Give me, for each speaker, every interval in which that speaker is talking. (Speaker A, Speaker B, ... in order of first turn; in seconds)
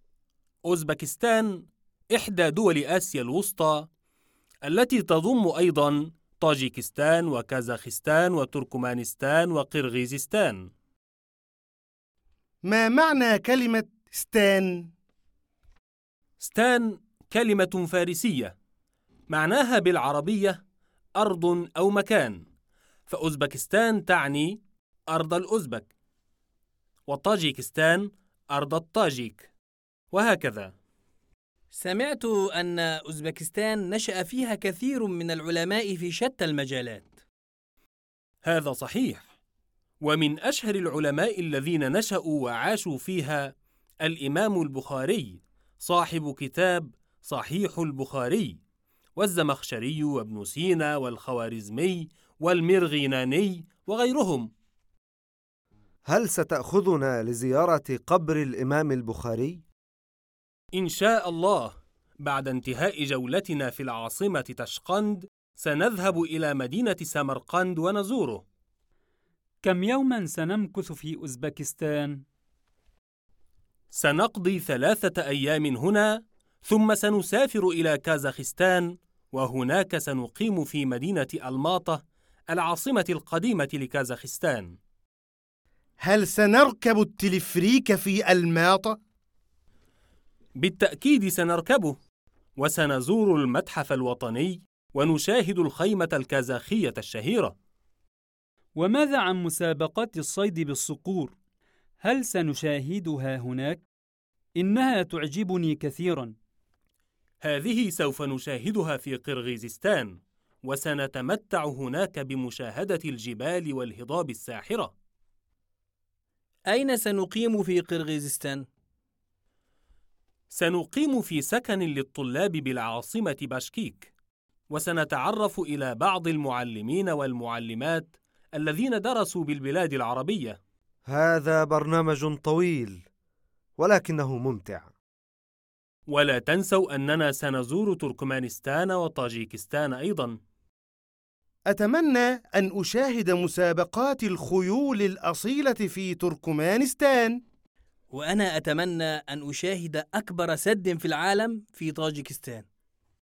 Speaker A: 0.7-3.9, 4.7-10.7, 16.4-18.5, 19.3-20.6, 21.2-22.4, 23.1-24.6, 25.1-25.9, 27.1-29.5, 30.1-30.7, 38.5-39.3, 40.0-48.6, 49.2-54.5, 60.8-68.4, 73.9-84.8, 90.6-92.0, 92.6-97.6, 107.4-114.9, 120.5-124.1, 124.7-130.6, 136.1-140.4
Speaker B: 12.6-14.9, 86.0-89.0, 141.7-147.4
Speaker C: 31.7-37.2, 116.7-118.7, 148.1-152.7
Speaker D: 56.0-59.6, 131.1-133.1, 133.8-134.9
Speaker E: 69.6-72.2, 98.8-101.3, 102.0-103.8, 104.6-106.3